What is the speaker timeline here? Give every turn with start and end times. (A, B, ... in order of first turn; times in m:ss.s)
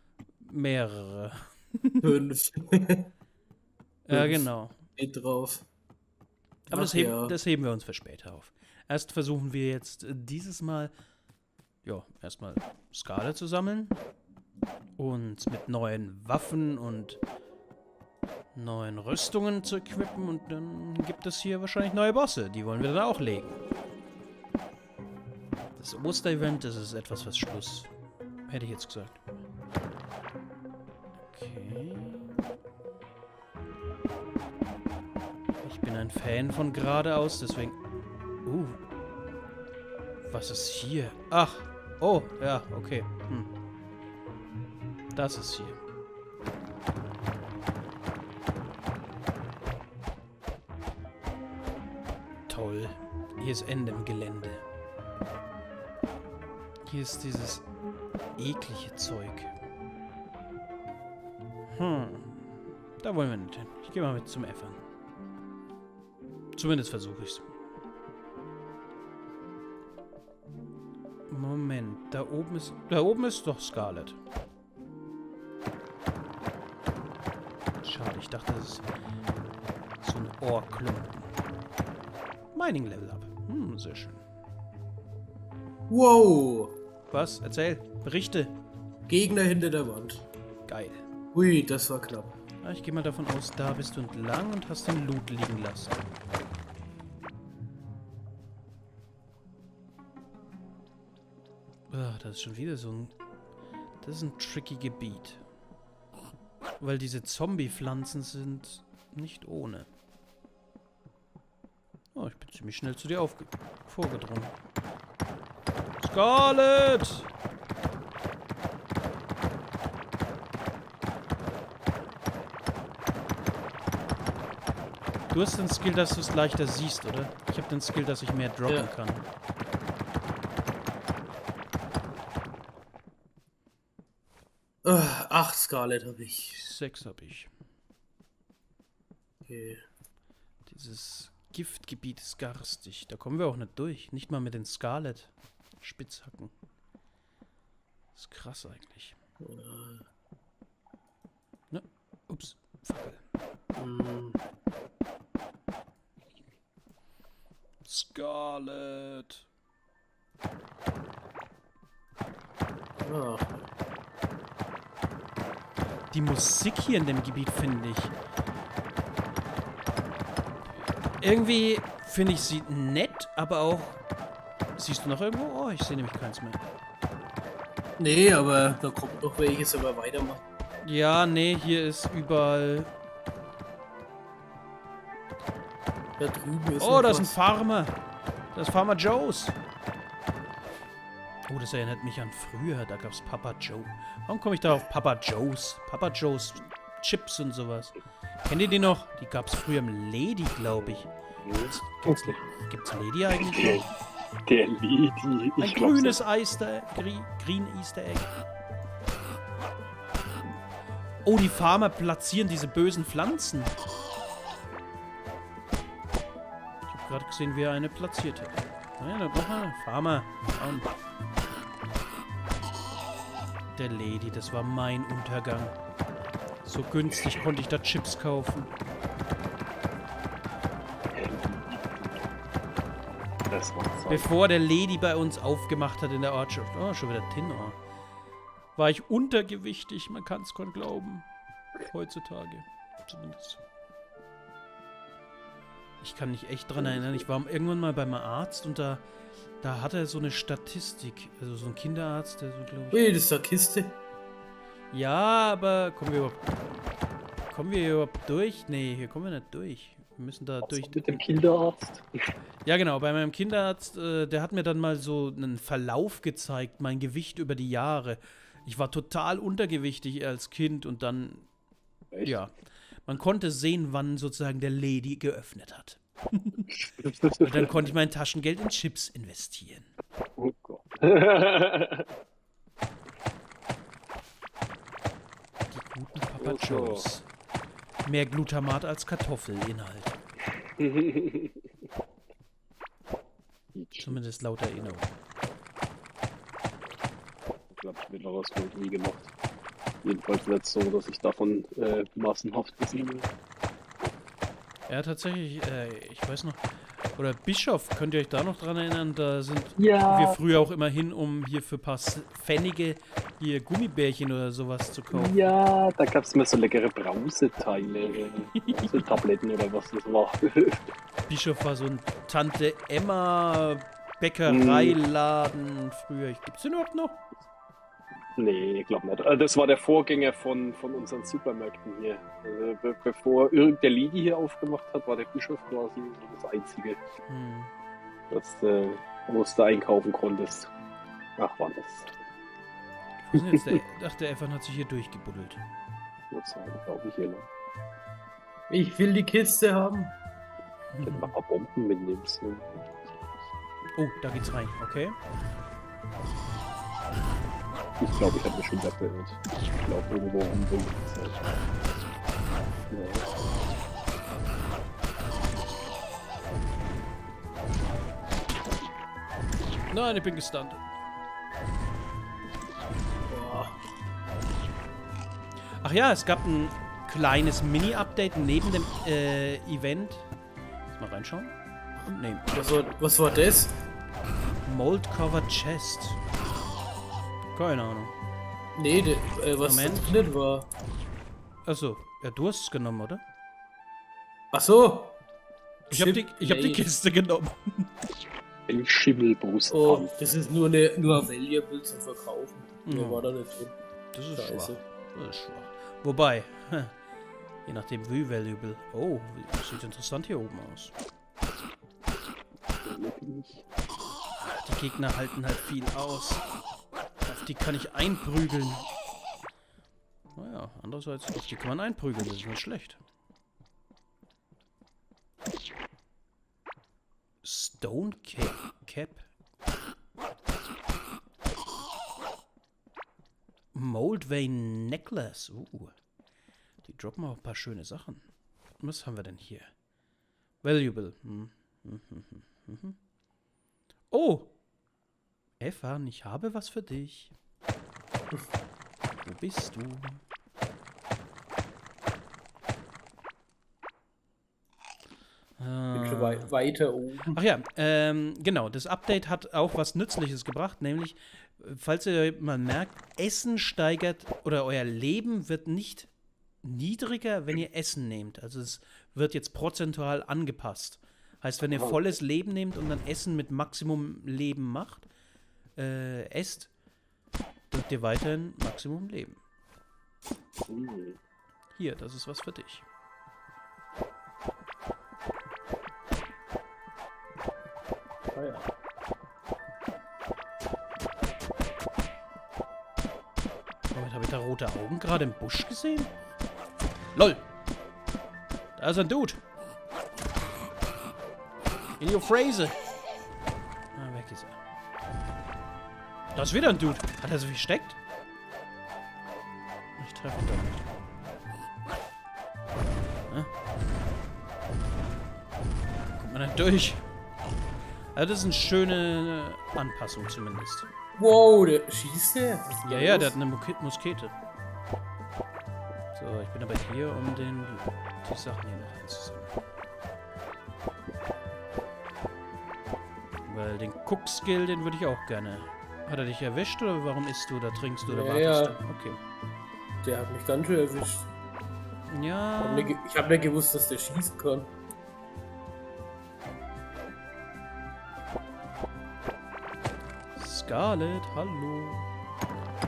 0:00.4-0:02.1 A
0:02.0-0:03.1 B
0:04.0-0:04.8 A
0:04.1-0:05.6 B
0:06.7-0:10.9 A
0:06.7-0:07.4 B
0:11.8-0:14.0 A
0:15.0-0:17.2 A
0:18.5-0:23.6 A
0:25.8-0:27.9 A
0:28.5-0:29.2 A
0:31.3-0:32.5 A
0:35.6-0:37.8 A
0:38.4-0:38.8 A
0:40.3-0:43.5 A
0:45.1-0:45.8 A
0:52.5-0:54.6 A
0:56.8-0:57.6 A
0:58.4-0:59.5 A
1:01.7-1:04.8 A
1:06.6-1:07.5 A
1:11.3-1:14.2 A
1:17.8-1:18.8 A
1:20.0-1:21.3 A
1:22.5-1:24.2 A
1:25.9-1:26.7 B
1:27.1-1:28.5 A
1:29.1-1:30.2 B
1:30.7-1:31.0 A
1:31.3-1:32.3 B
1:32.6-1:36.0 A
1:41.9-1:43.1 A
1:44.0-1:45.4 A
1:46.8-1:49.9 A
1:52.1-1:54.5 A
1:56.0-1:57.3 A
2:05.3-2:09.2 A
2:08.7-2:08.9 B
2:14.8-2:16.7 B
2:16.6-2:17.5 A
2:19.5-2:19.8 B
2:20.7-2:26.5 A
2:28.1-2:29.2 A
2:29.4-2:30.0 B
2:31.7-2:33.2 A
2:33.7-2:34.4 B
2:37.8-2:39.4 A
2:43.0-2:43.5 B
2:46.1-2:48.1 A
2:51.2-2:54.0 A
2:54.8-2:56.6 A
2:58.0-3:00.4 B
3:00.8-3:02.9 A
3:06.2-3:07.3 B
3:06.8-3:08.0 A
3:08.5-3:09.6 A
3:11.5-3:21.1 A
3:21.4-3:22.4 C
3:21.6-3:23.9 A
3:23.3-3:23.9 C
3:24.4-3:26.2 C
3:25.6-3:28.3 A
3:31.2-3:33.7 A
3:36.9-3:40.9 A
3:43.8-3:45.8 A
3:46.6-3:48.7 A
3:51.1-3:52.3 C
3:53.5-3:54.3 C
3:54.1-3:57.8 A
3:58.8-4:01.2 A
4:01.8-4:03.6 A
4:06.0-4:09.0 A
4:09.6-4:13.0 A
4:12.9-4:14.0 B
4:14.9-4:16.8 A
4:17.5-4:21.2 A
4:20.6-4:22.0 C
4:22.6-4:31.5 A
4:32.2-4:32.5 A
4:33.0-4:36.8 A
4:36.8-4:37.7 C
4:37.4-4:39.9 A
4:40.4-4:42.0 C
4:45.7-4:47.2 A
4:46.4-4:47.1 C
4:48.0-4:50.2 A
4:50.8-4:51.6 C
4:53.7-4:54.2 C
4:54.0-4:55.1 A
4:57.7-4:59.3 C
5:00.0-5:03.3 C
5:04.9-5:06.6 A
5:07.2-5:15.5 A
5:09.8-5:10.4 C
5:15.1-5:20.8 C
5:18.6-5:19.1 A
5:21.3-5:27.2 A
5:24.4-5:25.0 C
5:28.4-5:37.0 C
5:37.3-5:37.7 A
5:38.3-5:40.7 C
5:41.4-5:42.2 C
5:43.2-5:45.6 A
5:46.3-5:47.5 C
5:48.7-5:50.1 B
5:50.9-5:51.4 A
5:51.0-5:53.4 C
5:54.0-5:55.2 A
5:58.0-6:01.4 C
6:02.9-6:03.3 C
6:09.9-6:10.8 A
6:13.3-6:13.7 B
6:15.8-6:20.3 A
6:20.9-6:22.5 A
6:22.5-6:23.7 B
6:24.6-6:26.2 A
6:27.5-6:28.1 A
6:28.7-6:30.7 B
6:29.6-6:30.2 A
6:31.6-6:33.2 A
6:34.5-6:35.2 B
6:35.9-6:36.8 B
6:35.9-6:37.9 A
6:38.7-6:40.3 C
6:39.7-6:43.7 B
6:42.8-6:43.3 A
6:44.1-6:46.9 A
6:44.3-6:44.8 B
6:47.6-6:50.9 A
6:52.8-6:53.6 C
6:54.4-6:56.4 A
6:57.2-6:58.9 A
7:00.4-7:03.0 A
7:07.4-7:09.3 A
7:13.7-7:15.9 A
7:16.8-7:18.2 A
7:18.8-7:19.7 A
7:20.6-7:23.0 A
7:24.1-7:24.5 A
7:25.6-7:27.3 A
7:29.2-7:30.2 A
7:35.6-7:36.5 A
7:35.9-7:37.4 B
7:37.3-7:46.1 A
7:46.6-7:55.1 A
7:55.8-7:56.7 A
7:57.7-7:59.4 A
8:00.7-8:01.2 C
8:01.8-8:02.8 A
8:08.4-8:08.7 B
8:13.9-8:16.1 A
8:17.1-8:17.4 A
8:18.8-8:19.4 A
8:22.0-8:22.8 A
8:23.9-8:24.6 A
8:26.3-8:28.0 A
8:30.0-8:30.8 A
8:36.2-8:37.0 A
8:38.1-8:40.9 A
8:41.2-8:43.3 B
8:42.8-8:44.3 A
8:46.1-8:49.6 A
8:53.5-8:59.2 A
8:58.1-8:58.8 B
9:00.0-9:01.3 B
9:02.1-9:03.0 A
9:02.6-9:04.7 B
9:10.4-9:12.1 A